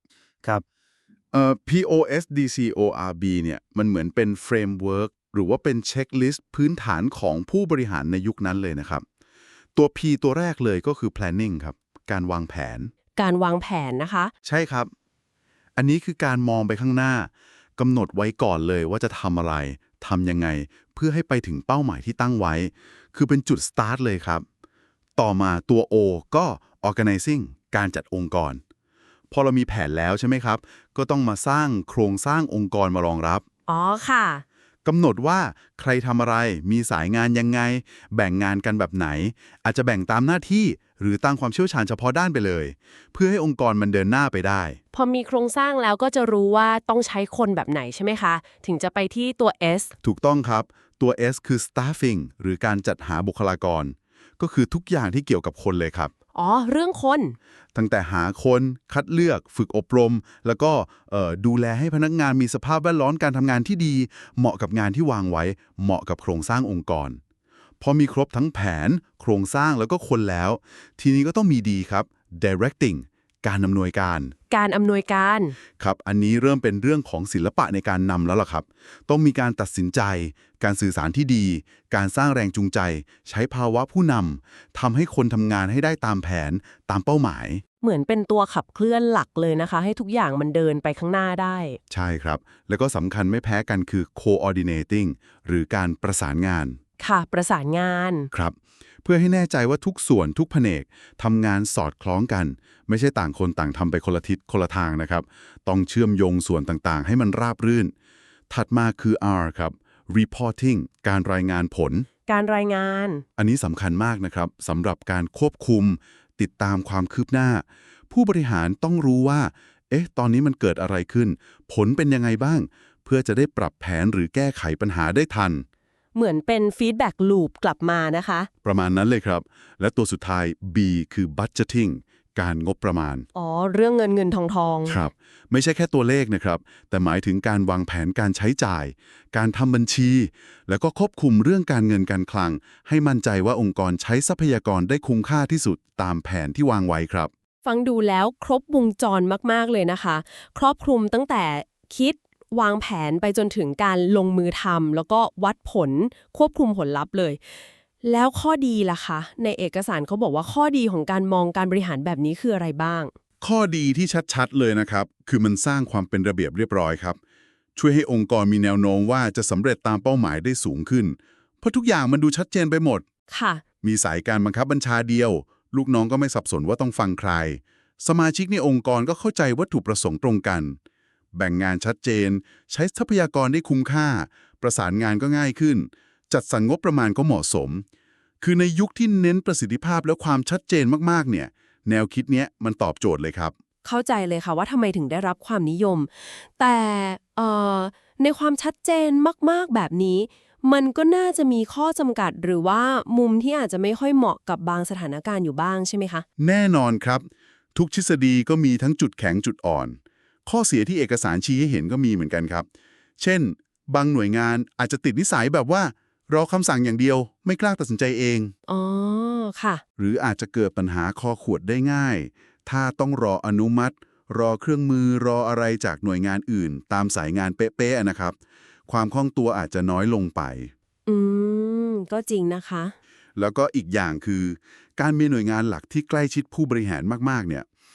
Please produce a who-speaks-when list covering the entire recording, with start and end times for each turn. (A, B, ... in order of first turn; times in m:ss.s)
0:01.3-0:09.0 A
0:09.8-0:12.9 A
0:13.2-0:14.3 B
0:14.4-0:14.9 A
0:15.8-0:24.4 A
0:25.2-0:28.6 A
0:29.3-0:33.4 A
0:33.7-0:34.4 B
0:34.8-0:44.8 A
0:44.9-0:49.9 B
0:50.0-0:56.1 A
0:56.3-0:57.4 B
0:57.8-1:07.2 A
1:07.8-1:14.3 A
1:14.5-1:15.6 B
1:15.8-1:27.6 A
1:27.8-1:31.8 B
1:31.9-1:36.8 A
1:37.0-1:38.3 B
1:38.3-1:47.9 A
1:48.5-1:52.1 A
1:52.3-1:53.2 B
1:53.4-2:05.6 A
2:06.1-2:08.5 B
2:08.6-2:13.3 A
2:13.4-2:15.0 B
2:14.9-2:27.3 A
2:27.6-2:37.4 B
2:38.0-2:43.1 B
2:43.4-2:47.2 A
2:47.8-2:53.0 A
2:53.3-2:53.6 B
2:53.8-3:00.8 A
3:01.3-3:07.8 A
3:08.4-3:13.6 A
3:13.8-3:26.2 B
3:26.4-3:32.7 A
3:33.2-3:38.5 A
3:38.7-3:39.8 B
3:40.0-3:48.4 A
3:48.9-3:50.7 A
3:51.1-3:53.0 B
3:53.4-3:57.7 A